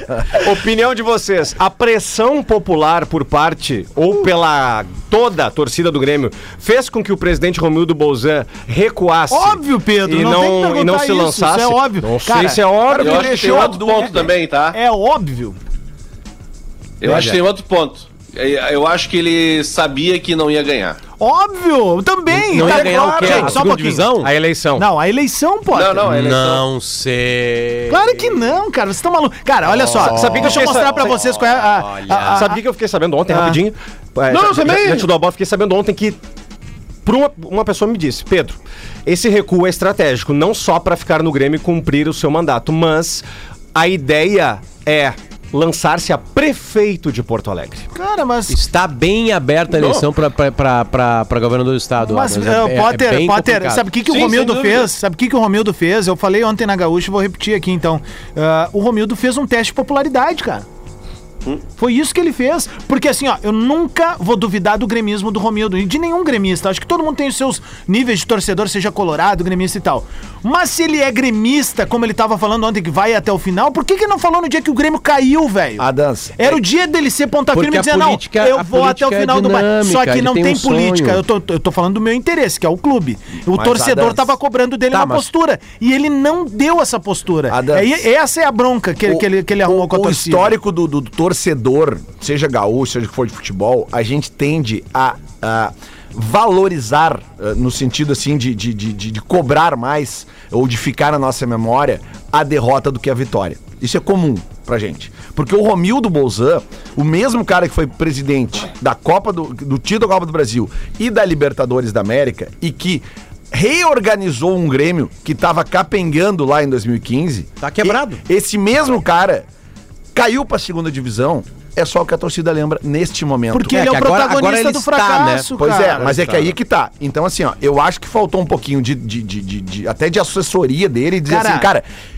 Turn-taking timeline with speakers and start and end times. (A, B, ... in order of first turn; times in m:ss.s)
0:00.3-0:13.6 A
0:09.3-0:12.6 B
0:12.9-0:14.3 C
0:12.9-0:14.8 D
0:14.7-0:15.6 B
0:17.0-0:21.0 D
0:17.1-0:17.4 E
0:21.2-0:24.1 B
0:22.3-0:24.3 E
0:22.6-0:23.6 C
0:24.2-0:24.9 A
0:24.8-0:26.1 B
0:25.7-0:26.7 D
0:26.0-0:28.4 E
0:27.9-0:32.6 B
0:29.7-0:32.5 E
0:30.0-0:31.3 A
0:32.3-0:36.2 A
0:33.3-0:33.6 B
0:34.5-0:35.0 D
0:37.0-0:47.9 A
0:47.9-0:48.6 B
0:48.5-0:53.9 E
0:52.0-1:00.6 B
0:54.1-0:54.6 D
1:01.7-1:30.6 B
1:15.8-1:16.6 C
1:17.5-1:21.2 E
1:23.6-1:24.0 C
1:24.9-1:25.3 E
1:27.5-1:28.0 C
1:29.1-1:59.5 C
1:57.6-1:58.2 E
2:00.2-2:03.8 C
2:03.5-2:06.1 B
2:03.7-2:05.5 E
2:05.6-2:11.9 C
2:05.9-2:06.5 A
2:11.3-2:11.7 B